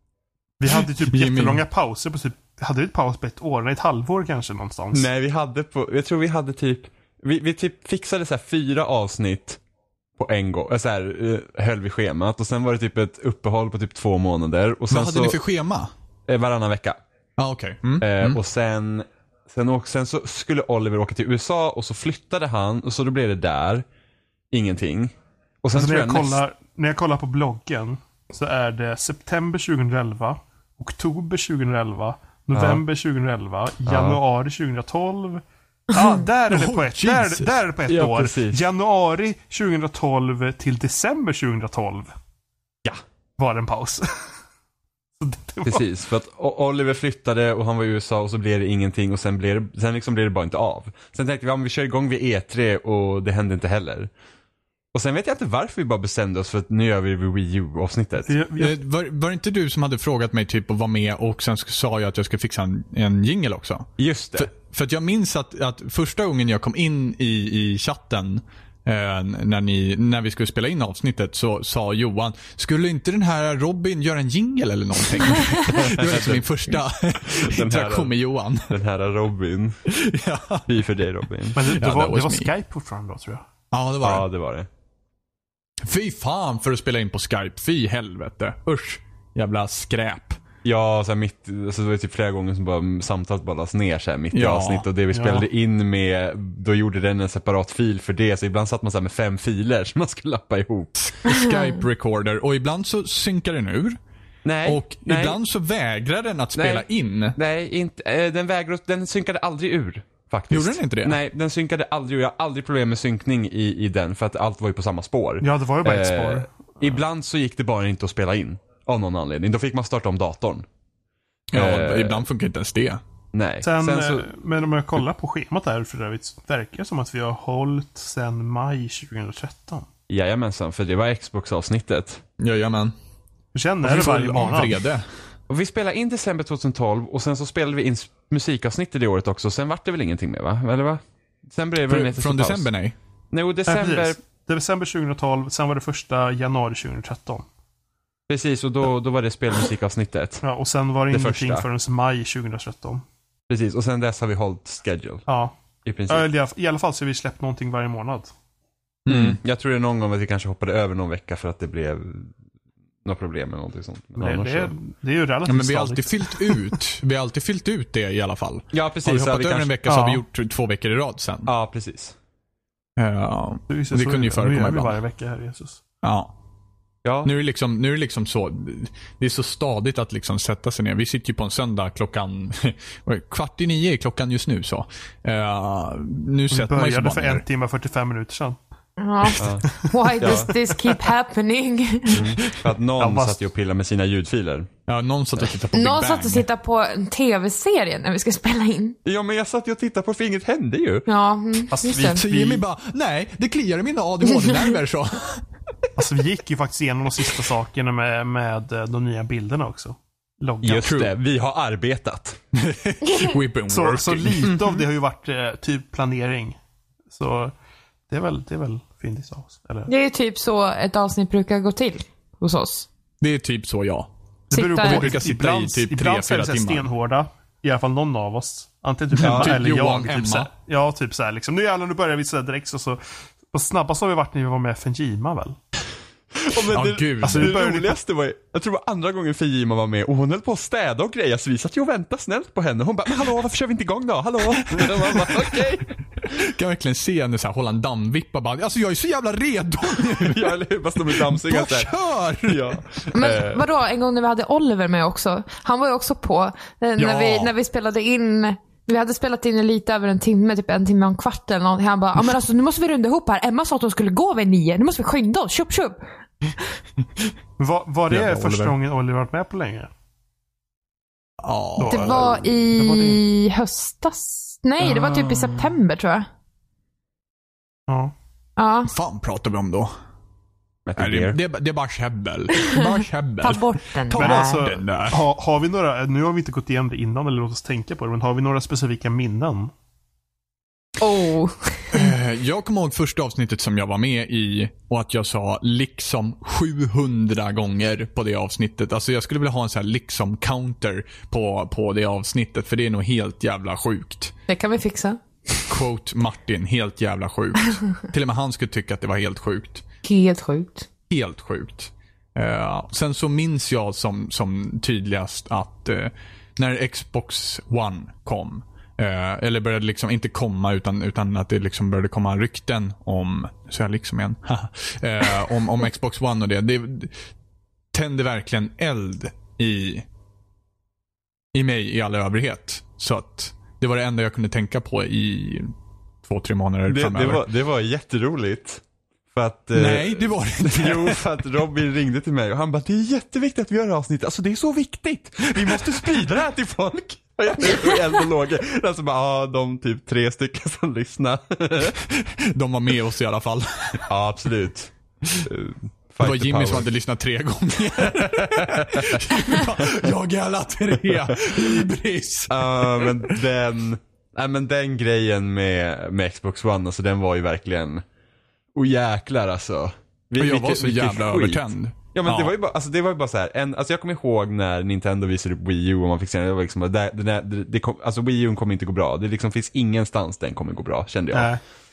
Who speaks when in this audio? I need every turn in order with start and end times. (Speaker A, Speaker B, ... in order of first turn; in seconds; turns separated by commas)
Speaker A: 0.6-5.1, Speaker B: 1.1-1.6, Speaker C: 4.9-9.6, Speaker C: 10.2-15.4, Speaker B: 14.9-15.9, Speaker C: 16.3-17.0, Speaker B: 17.4-18.4, Speaker C: 18.0-23.9, Speaker C: 24.5-26.4, Speaker A: 25.7-42.1, Speaker C: 32.5-32.8, Speaker C: 33.9-34.2, Speaker B: 36.5-37.5, Speaker C: 37.9-38.6, Speaker A: 43.4-44.1, Speaker A: 45.2-45.8, Speaker C: 45.6-54.1, Speaker C: 54.9-58.3, Speaker A: 58.2-58.8, Speaker B: 58.6-78.8, Speaker C: 64.0-64.5, Speaker C: 75.7-79.8, Speaker B: 79.9-80.7, Speaker C: 80.7-81.6, Speaker A: 81.5-83.5, Speaker B: 81.8-82.5, Speaker B: 83.7-84.3, Speaker C: 84.0-84.7, Speaker B: 85.8-90.4, Speaker C: 90.6-100.9, Speaker B: 94.3-94.8, Speaker A: 95.1-95.4, Speaker B: 101.0-104.0, Speaker D: 101.3-101.8, Speaker C: 104.4-105.4, Speaker B: 104.7-107.4, Speaker C: 106.5-120.7, Speaker B: 110.5-111.2, Speaker A: 115.4-116.9, Speaker B: 121.5-123.0, Speaker C: 121.5-122.2, Speaker C: 123.3-124.3, Speaker A: 123.6-129.9, Speaker C: 130.1-132.2, Speaker B: 132.4-132.9, Speaker A: 133.5-134.8, Speaker B: 133.8-135.1, Speaker C: 135.5-142.7, Speaker B: 141.9-142.9, Speaker C: 143.3-144.2, Speaker A: 143.7-147.5, Speaker C: 148.3-150.4, Speaker A: 150.4-153.0, Speaker C: 151.1-151.7, Speaker C: 153.5-155.2, Speaker A: 155.3-155.5, Speaker C: 155.8-156.3, Speaker A: 156.1-158.3, Speaker B: 159.1-159.4, Speaker C: 159.1-162.3, Speaker C: 163.0-164.7, Speaker A: 164.2-166.5, Speaker B: 165.5-171.5, Speaker C: 168.7-169.7, Speaker A: 169.9-170.2, Speaker C: 171.4-172.2, Speaker B: 173.0-175.0, Speaker A: 173.7-175.8, Speaker B: 176.0-176.3, Speaker C: 177.0-177.3, Speaker B: 177.2-187.4, Speaker A: 186.5-188.6, Speaker D: 189.0-192.3, Speaker C: 189.4-189.7, Speaker A: 189.8-190.8, Speaker C: 190.2-190.5, Speaker C: 192.1-194.7, Speaker A: 193.0-193.4, Speaker B: 194.9-196.5, Speaker D: 195.7-199.0, Speaker C: 199.0-201.1, Speaker D: 201.1-202.2, Speaker A: 201.7-202.6, Speaker B: 202.0-205.4, Speaker D: 204.3-204.8, Speaker A: 205.9-211.0, Speaker C: 210.6-212.4, Speaker B: 210.8-211.1, Speaker B: 212.6-214.5, Speaker A: 213.7-216.6, Speaker C: 214.4-214.8, Speaker A: 217.1-217.5, Speaker A: 218.1-219.9, Speaker D: 219.9-222.9, Speaker B: 223.2-224.1, Speaker A: 224.5-233.0, Speaker D: 224.5-225.1, Speaker B: 224.8-226.9, Speaker B: 229.2-230.5, Speaker C: 229.2-229.6, Speaker A: 233.5-235.6, Speaker C: 236.4-245.8, Speaker B: 236.7-237.6, Speaker A: 237.2-238.0, Speaker B: 244.6-245.6, Speaker B: 246.3-250.6, Speaker C: 250.1-253.7, Speaker B: 251.1-252.8, Speaker D: 253.1-266.0, Speaker B: 257.0-257.5, Speaker A: 267.6-269.9, Speaker B: 268.1-268.7, Speaker B: 271.4-272.2, Speaker A: 271.8-273.2, Speaker D: 271.9-276.3, Speaker C: 274.8-275.5, Speaker A: 277.9-278.1, Speaker D: 278.6-278.9, Speaker B: 278.9-279.9, Speaker C: 280.9-281.4, Speaker B: 281.0-285.2, Speaker D: 283.4-284.6, Speaker A: 284.1-289.7, Speaker D: 291.0-292.1, Speaker B: 291.9-304.3, Speaker D: 304.5-305.2, Speaker B: 305.7-309.8, Speaker D: 310.0-310.9, Speaker B: 311.1-327.1, Speaker B: 327.9-330.0, Speaker B: 331.5-335.7, Speaker B: 336.2-337.4, Speaker C: 336.9-352.0, Speaker B: 339.7-341.2, Speaker B: 352.1-354.1, Speaker C: 354.1-356.9, Speaker B: 356.2-363.2, Speaker C: 358.1-359.2, Speaker C: 362.5-368.0, Speaker C: 368.7-381.5, Speaker B: 370.4-372.5, Speaker A: 381.3-381.6